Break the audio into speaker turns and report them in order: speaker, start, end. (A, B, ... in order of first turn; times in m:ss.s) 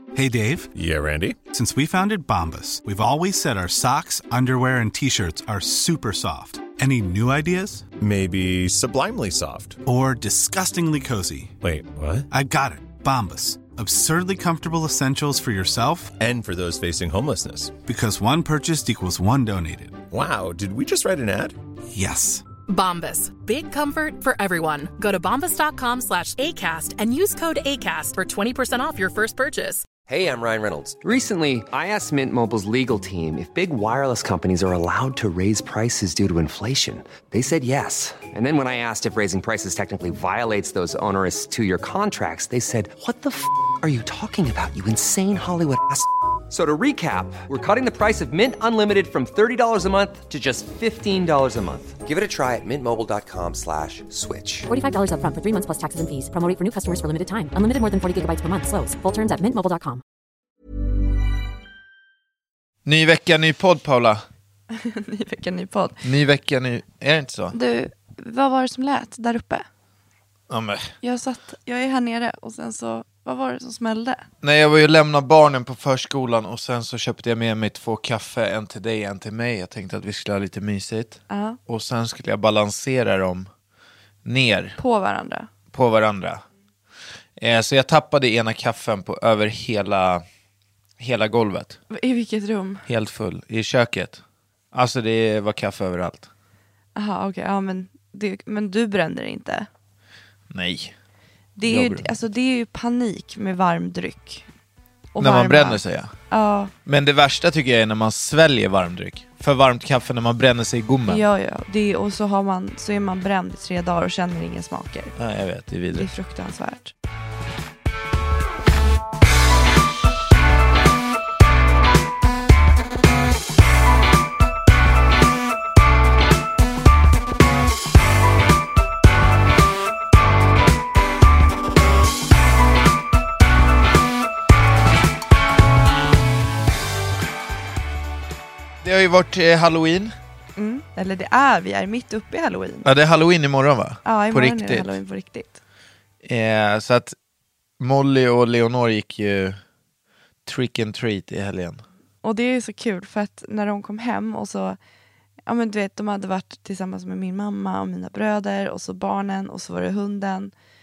0:00.1-0:00.7 A
0:00.7-0:01.4 B
0:01.5-0:07.9 A
0:08.0-0:09.8 B
0:09.8-0:11.5 A
0:11.6-0:12.3 B
0:12.3-0:16.1 A
0:16.2-0:17.8 B
0:17.8-0:20.0 A
0:20.1-0:21.6 B
0:21.9-0:22.5 A
0:22.7-0:29.8 C
0:30.1-0:54.7 D
0:54.7-1:00.0 E
1:02.8-1:04.2 F
1:04.7-1:06.0 G
1:06.0-1:07.6 F
1:07.5-1:09.6 G
1:10.5-1:10.9 F
1:11.0-1:14.2 G
1:14.4-1:23.5 F
1:21.3-1:21.6 G
1:24.2-1:24.8 F
1:24.8-1:25.5 G
1:25.7-1:26.4 F
1:27.4-1:30.2 F
1:31.0-1:31.8 F
1:31.9-1:32.8 G
1:32.9-1:34.2 F
1:34.7-1:36.3 F
1:37.0-1:39.7 G
1:40.5-1:40.9 F
1:41.6-1:44.4 G
1:41.6-1:42.1 F
1:45.1-1:46.7 G
1:45.2-1:46.1 F
1:46.8-1:51.2 F
1:51.1-1:55.1 G
1:55.2-1:56.1 F
1:55.9-1:56.9 G
2:18.8-2:20.1 F
2:20.6-2:22.9 G
2:22.8-2:25.0 F
2:24.0-2:25.6 G
2:26.2-2:27.2 F
2:27.8-2:29.6 F
2:30.4-2:31.8 F
2:32.2-2:34.8 G
2:35.4-2:40.5 G